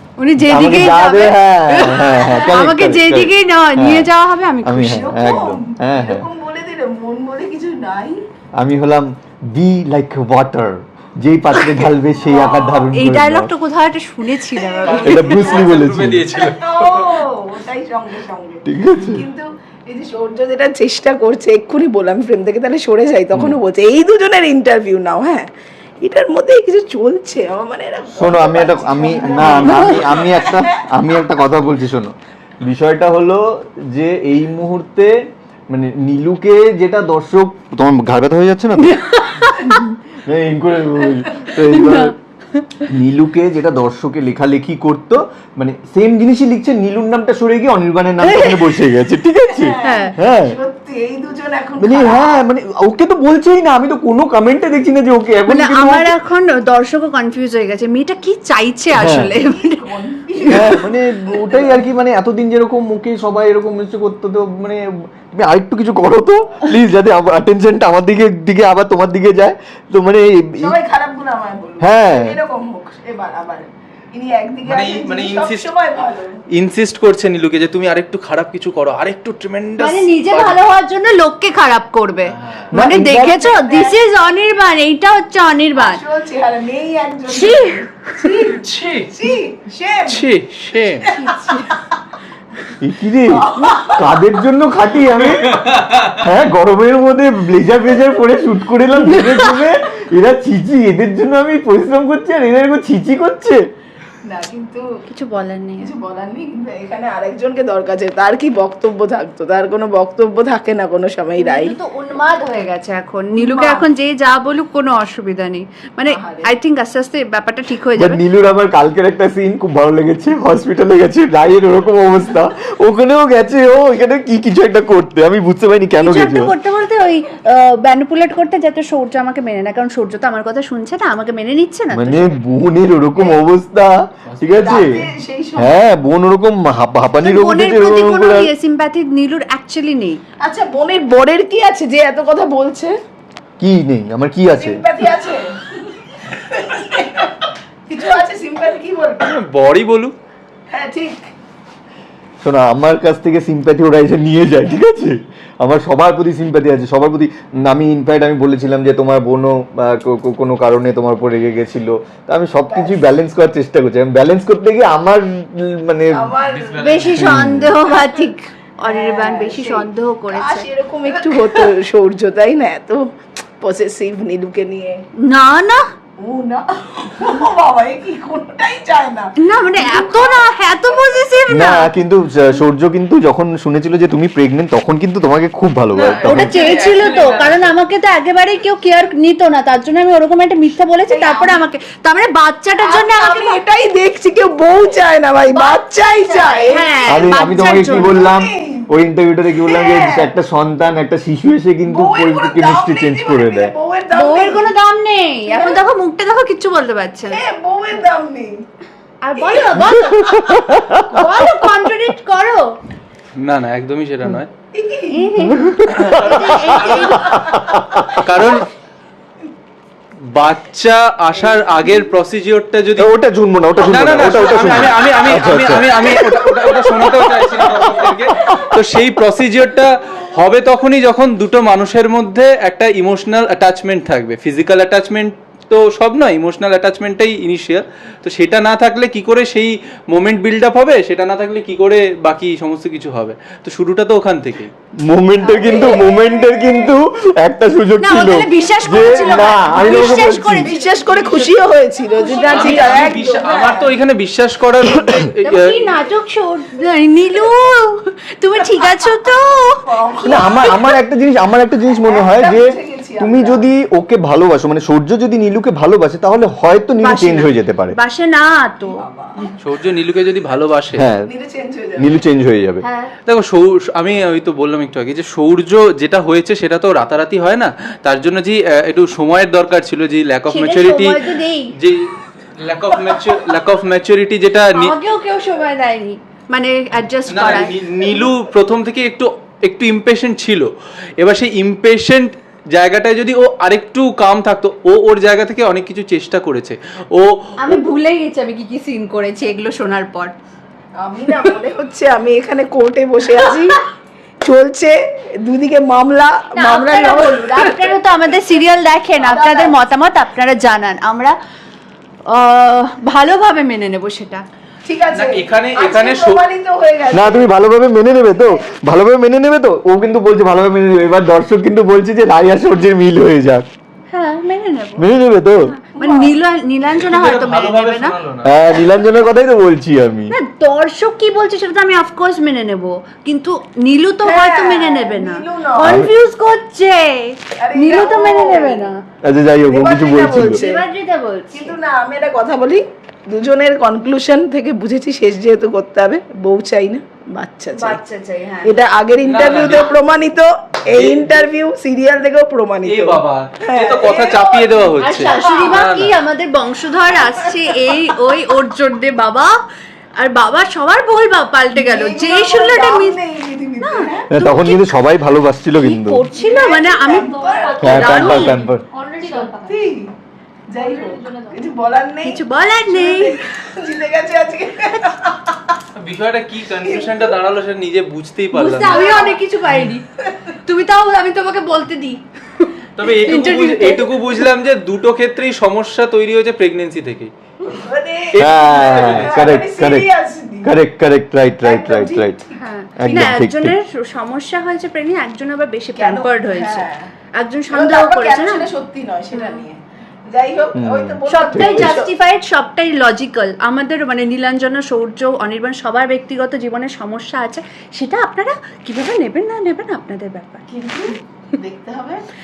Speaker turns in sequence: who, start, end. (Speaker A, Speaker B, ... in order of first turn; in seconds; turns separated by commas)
Speaker A: 0.2-5.0, Speaker B: 0.4-4.1, Speaker B: 4.6-6.2, Speaker C: 4.9-8.2, Speaker B: 8.6-13.5, Speaker A: 11.6-11.8, Speaker C: 12.2-12.8, Speaker A: 12.9-15.6, Speaker C: 14.5-15.8, Speaker D: 14.8-17.2, Speaker B: 14.9-16.2, Speaker C: 16.3-25.5, Speaker B: 18.7-19.2, Speaker C: 26.0-30.8, Speaker B: 28.1-35.1, Speaker A: 29.4-30.1, Speaker B: 35.7-39.0, Speaker A: 38.8-39.9, Speaker B: 40.1-42.1, Speaker A: 41.5-42.9, Speaker B: 42.9-50.6, Speaker A: 48.2-48.8, Speaker C: 49.5-52.4, Speaker A: 49.8-50.1, Speaker B: 51.8-56.1, Speaker A: 55.5-59.8, Speaker B: 58.9-59.3, Speaker C: 59.3-60.9, Speaker A: 60.5-60.9, Speaker B: 60.5-70.8, Speaker C: 70.6-76.4, Speaker B: 71.8-72.3, Speaker D: 74.6-75.7, Speaker D: 76.5-80.6, Speaker A: 79.8-86.0, Speaker D: 82.2-82.7, Speaker B: 82.7-83.6, Speaker C: 83.5-84.0, Speaker C: 85.8-90.3, Speaker A: 87.3-88.4, Speaker D: 88.5-89.1, Speaker D: 90.1-91.0, Speaker C: 91.0-91.8, Speaker A: 91.1-91.7, Speaker B: 92.8-103.6, Speaker C: 93.3-94.1, Speaker D: 95.4-96.2, Speaker A: 99.0-99.7, Speaker C: 104.2-104.8, Speaker A: 105.1-105.9, Speaker C: 105.8-111.8, Speaker A: 111.4-118.2, Speaker C: 113.4-113.9, Speaker C: 116.1-116.5, Speaker B: 118.0-126.5, Speaker A: 126.0-132.4, Speaker B: 131.9-135.0, Speaker D: 134.2-134.8, Speaker C: 134.5-135.8, Speaker B: 135.6-138.5, Speaker A: 137.2-140.2, Speaker C: 140.4-142.9, Speaker B: 143.6-144.8, Speaker C: 144.5-149.3, Speaker D: 149.2-150.1, Speaker C: 150.7-151.3, Speaker B: 152.4-166.3, Speaker C: 162.7-163.0, Speaker C: 166.1-166.9, Speaker D: 166.4-167.3, Speaker A: 166.8-171.6, Speaker B: 167.1-167.8, Speaker C: 168.8-173.0, Speaker C: 173.6-175.0, Speaker A: 175.2-175.8, Speaker C: 176.2-181.2, Speaker A: 179.4-181.9, Speaker B: 181.5-186.6, Speaker D: 185.9-187.8, Speaker A: 186.2-193.6, Speaker C: 191.1-191.6, Speaker C: 192.8-198.9, Speaker A: 195.5-198.2, Speaker B: 197.1-203.7, Speaker C: 199.5-200.3, Speaker C: 201.8-204.7, Speaker A: 204.1-207.4, Speaker C: 205.5-205.8, Speaker C: 207.3-208.6, Speaker A: 209.2-212.7, Speaker C: 209.3-209.9, Speaker B: 209.8-211.7, Speaker D: 213.3-214.5, Speaker C: 214.7-215.3, Speaker A: 215.1-217.4, Speaker B: 215.6-218.5, Speaker D: 215.9-217.6, Speaker C: 217.2-217.7, Speaker D: 218.2-218.7, Speaker D: 220.3-223.1, Speaker B: 223.0-227.1, Speaker D: 223.8-244.7, Speaker C: 226.2-226.8, Speaker C: 227.3-228.6, Speaker B: 245.1-250.7, Speaker C: 245.4-246.9, Speaker A: 248.0-250.9, Speaker C: 248.6-253.9, Speaker D: 251.0-251.6, Speaker A: 252.1-253.8, Speaker D: 252.4-255.9, Speaker A: 255.4-259.8, Speaker C: 259.8-260.8, Speaker B: 260.2-268.0, Speaker C: 262.0-263.7, Speaker A: 267.0-269.0, Speaker C: 268.9-269.6, Speaker D: 269.6-271.0, Speaker B: 270.9-271.3, Speaker C: 271.2-272.2, Speaker B: 272.0-272.8, Speaker A: 272.8-273.1, Speaker D: 273.2-282.1, Speaker A: 280.5-281.7, Speaker D: 282.6-284.9, Speaker A: 284.7-287.8, Speaker D: 287.3-297.8, Speaker A: 297.6-300.3, Speaker C: 301.0-303.8, Speaker C: 304.4-308.0, Speaker A: 306.6-311.3, Speaker C: 309.2-309.8, Speaker A: 312.3-314.4, Speaker C: 314.9-317.5, Speaker D: 315.1-316.4, Speaker B: 317.1-323.6, Speaker A: 324.1-325.1, Speaker B: 325.0-325.7, Speaker A: 325.6-328.1, Speaker C: 325.9-326.3, Speaker D: 326.9-328.5, Speaker B: 328.4-330.3, Speaker A: 330.3-338.9, Speaker C: 334.2-336.0, Speaker B: 335.8-336.1, Speaker C: 337.6-338.9, Speaker B: 339.2-340.6, Speaker C: 339.6-340.8, Speaker A: 340.3-341.7, Speaker C: 341.5-348.0, Speaker A: 347.7-348.8, Speaker C: 348.6-355.8, Speaker D: 349.2-349.9, Speaker D: 350.9-351.5, Speaker D: 352.9-356.2, Speaker A: 355.0-359.5, Speaker C: 357.0-357.9, Speaker A: 360.2-363.2, Speaker C: 361.7-364.3, Speaker A: 363.8-364.9, Speaker B: 364.3-366.2, Speaker A: 365.7-369.7, Speaker C: 366.3-368.6, Speaker B: 367.8-368.8, Speaker C: 369.2-370.1, Speaker C: 370.7-375.8, Speaker A: 370.8-371.2, Speaker A: 372.2-373.4, Speaker D: 375.9-379.2, Speaker C: 376.8-377.3, Speaker A: 378.5-380.0, Speaker C: 378.8-379.4, Speaker D: 379.7-379.9, Speaker A: 380.5-384.2, Speaker D: 382.9-387.3, Speaker C: 387.7-390.7, Speaker D: 388.3-389.4, Speaker B: 388.4-390.1, Speaker B: 390.6-392.4, Speaker C: 391.6-392.6, Speaker A: 392.6-398.7, Speaker B: 393.0-393.8, Speaker C: 395.9-397.1, Speaker C: 397.7-402.1, Speaker A: 399.3-399.6, Speaker B: 400.7-402.0, Speaker A: 401.3-410.6, Speaker C: 410.7-412.2